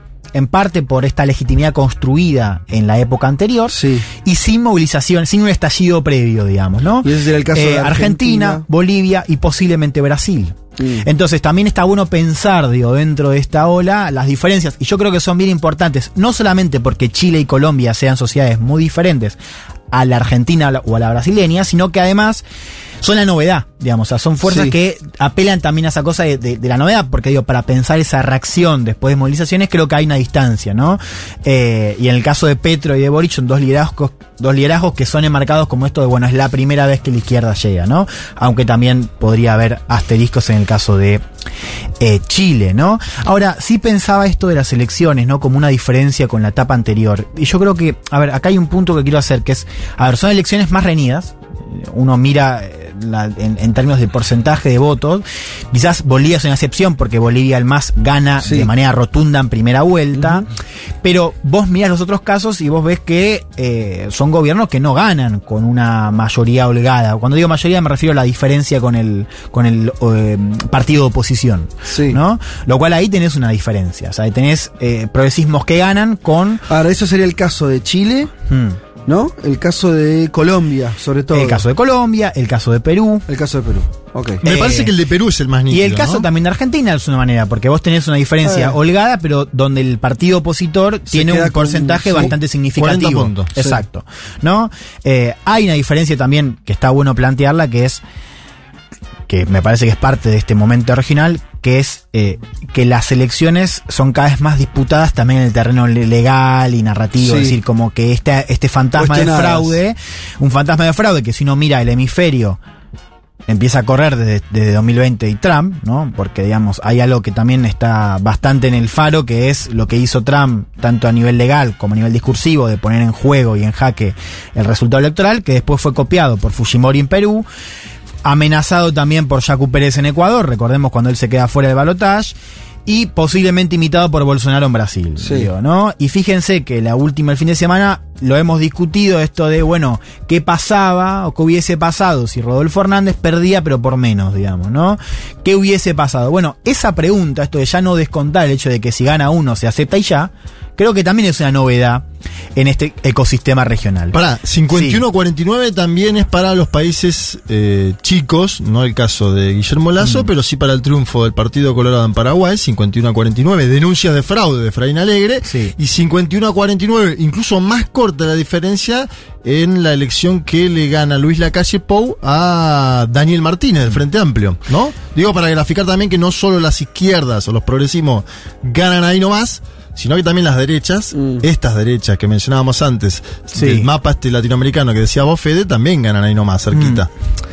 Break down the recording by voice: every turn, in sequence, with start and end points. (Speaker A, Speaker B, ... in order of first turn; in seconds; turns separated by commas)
Speaker A: 0.3-19.4, Speaker B: 3.7-4.1, Speaker B: 7.0-8.6, Speaker B: 10.8-11.1, Speaker A: 19.9-22.4, Speaker A: 23.0-41.2, Speaker B: 24.5-24.7, Speaker A: 42.0-60.5, Speaker B: 58.4-58.7, Speaker B: 60.1-60.5, Speaker A: 61.0-76.7, Speaker B: 71.9-72.2, Speaker B: 76.7-78.3, Speaker A: 78.5-78.8, Speaker B: 79.1-81.6, Speaker A: 81.3-83.2, Speaker B: 83.3-84.4, Speaker C: 84.4-86.2, Speaker A: 84.4-84.9, Speaker A: 85.7-98.0, Speaker B: 88.5-88.8, Speaker B: 91.1-92.3, Speaker C: 92.8-93.5, Speaker A: 99.3-112.6, Speaker B: 107.2-107.6, Speaker B: 109.0-109.8, Speaker A: 113.5-127.5, Speaker A: 128.2-132.3, Speaker A: 132.9-152.1, Speaker B: 135.2-135.5, Speaker A: 152.6-154.2, Speaker C: 154.1-187.1, Speaker A: 154.7-155.0, Speaker A: 160.0-160.3, Speaker A: 165.4-165.8, Speaker B: 181.2-181.4, Speaker A: 183.5-183.9, Speaker A: 186.7-187.1